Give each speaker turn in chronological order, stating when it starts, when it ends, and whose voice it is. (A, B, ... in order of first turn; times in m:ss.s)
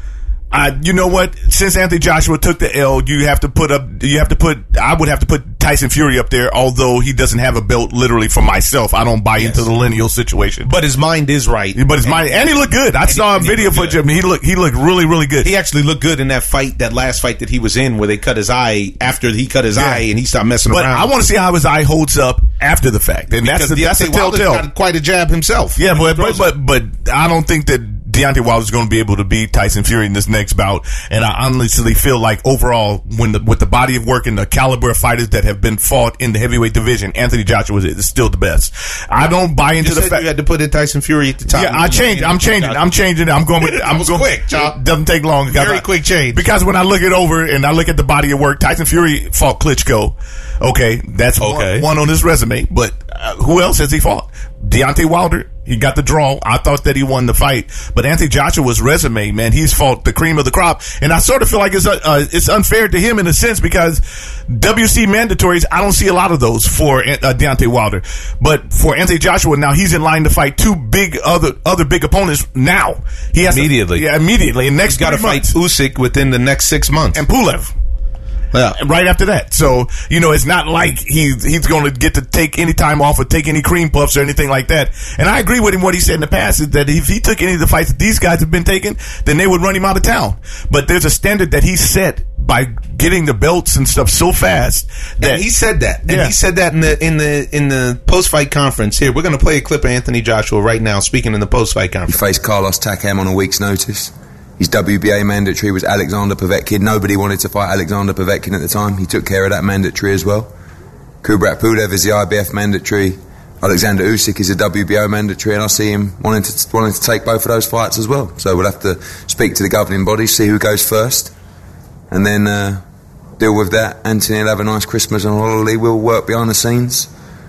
0:00.5-0:10.7 A
0:09.4-0:09.6 B
0:10.6-0:12.4 B
0:11.7-0:15.5 A
0:13.0-0:14.0 B
0:15.4-0:21.1 B
0:19.8-0:20.0 A
0:20.7-0:24.6 A
0:23.4-0:26.5 B
0:25.8-0:40.2 A
0:39.8-0:42.9 B
0:41.5-1:15.5 A
0:43.6-0:44.8 B
0:45.5-0:46.4 B
0:51.4-0:51.9 B
1:13.5-1:14.0 B
1:14.9-1:17.2 B
1:17.1-1:17.7 A
1:18.7-1:35.4 A
1:35.2-1:42.2 B
1:36.0-1:36.3 A
1:42.1-1:50.5 C
1:51.2-2:01.3 C
2:02.1-2:02.8 C
2:03.4-2:07.1 C